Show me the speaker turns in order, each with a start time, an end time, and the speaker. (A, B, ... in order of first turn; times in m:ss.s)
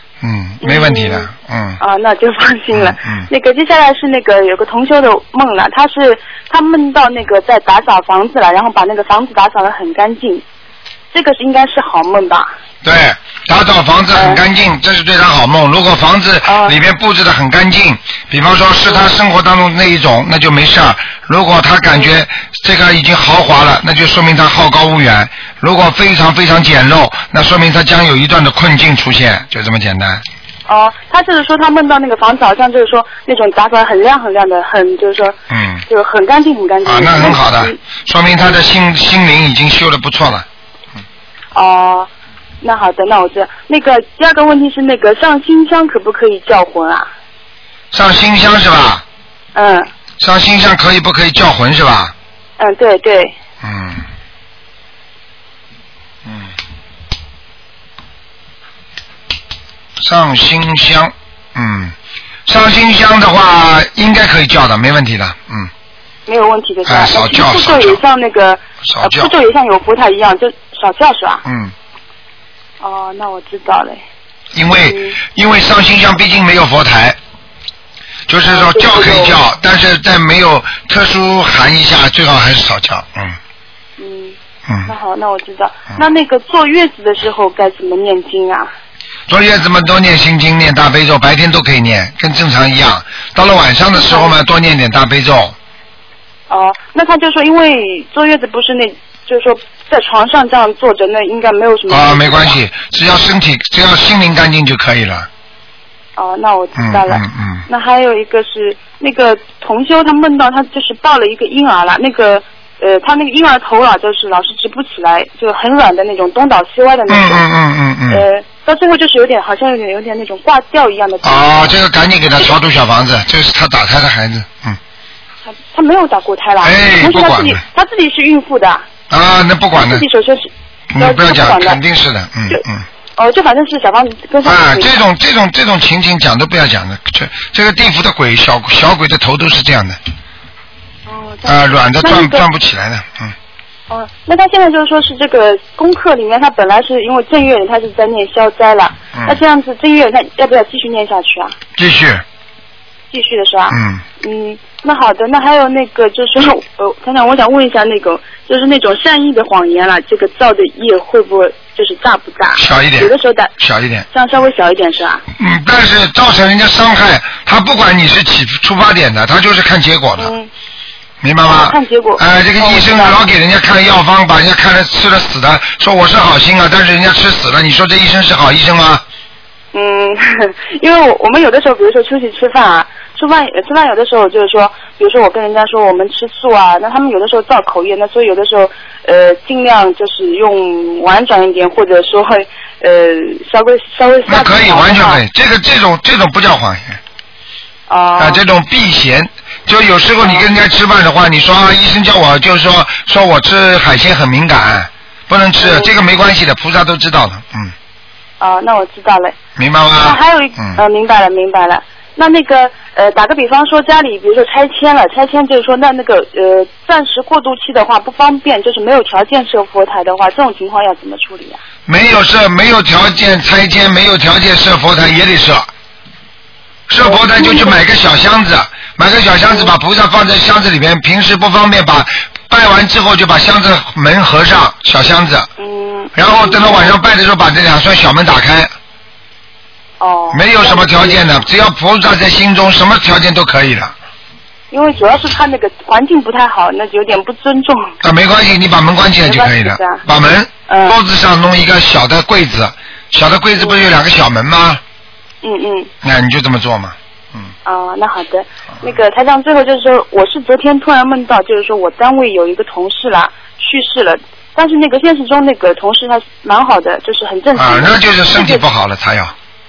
0:00.2-0:01.8 A
0:00.6-0:01.3 B
0:01.8-0:10.4 B
0:02.7-0:03.3 A
0:11.1-0:12.5 B
0:12.8-0:30.2 A
0:14.2-0:14.4 B
0:16.5-0:16.8 B
0:30.7-0:35.4 B
0:35.5-0:35.8 A
0:35.9-0:37.8 B
0:36.8-0:40.5 A
0:41.5-0:42.1 B
0:42.6-0:47.1 B
0:47.9-0:49.0 A
0:49.6-0:49.9 B
0:50.2-0:52.1 A
0:52.6-0:53.3 B
0:53.6-0:54.0 A
0:56.3-0:56.5 A
1:00.0-1:02.0 A
1:02.5-1:05.7 A
1:06.3-1:11.4 B
1:06.9-1:08.0 A
1:08.8-1:09.3 A
1:11.4-1:11.7 A
1:12.8-1:14.0 B
1:14.5-1:17.2 A
1:14.8-1:15.2 B
1:18.3-1:23.4 A
1:18.5-1:19.4 B
1:24.0-1:28.7 B
1:29.3-1:35.6 A
1:34.0-1:34.4 B
1:36.5-1:42.6 B
1:41.9-1:45.3 A
1:46.2-1:57.4 B
1:46.8-1:47.6 A
1:57.1-1:58.2 A
1:58.1-2:01.7 B
2:01.2-2:04.8 A
2:05.5-2:08.8 B
2:06.6-2:07.6 A
2:09.1-2:10.0 A
2:09.8-2:11.8 B
2:10.9-2:12.8 A
2:13.2-2:15.0 B
2:14.4-2:20.0 A
2:21.1-2:22.4 B
2:21.4-2:23.4 A
2:23.9-2:31.5 B
2:29.1-2:29.4 A
2:31.8-2:32.2 A
2:33.1-2:43.5 B
2:33.7-2:34.0 A
2:42.6-2:44.0 A
2:44.1-2:45.2 B
2:45.4-2:50.4 A
2:50.2-2:50.5 B
2:51.2-2:59.0 A
2:51.4-2:53.2 B
2:59.7-3:15.2 B
3:14.3-3:17.0 A
3:17.9-3:18.4 B
3:18.2-3:27.7 A
3:25.6-3:25.9 B
3:28.4-3:29.4 B
3:29.6-3:30.8 A
3:30.0-3:41.6 B
3:41.9-3:45.7 A
3:46.9-3:55.5 A
3:47.0-3:47.8 B
3:55.6-3:57.0 B
3:56.2-3:58.7 A
4:00.0-4:01.4 B
4:00.3-4:03.9 A
4:04.7-4:07.9 B
4:08.0-4:14.8 A
4:09.2-4:10.0 B
4:10.7-4:11.0 B
4:15.4-4:15.9 B
4:16.0-4:17.5 A
4:17.6-4:28.6 B
4:27.6-4:29.3 A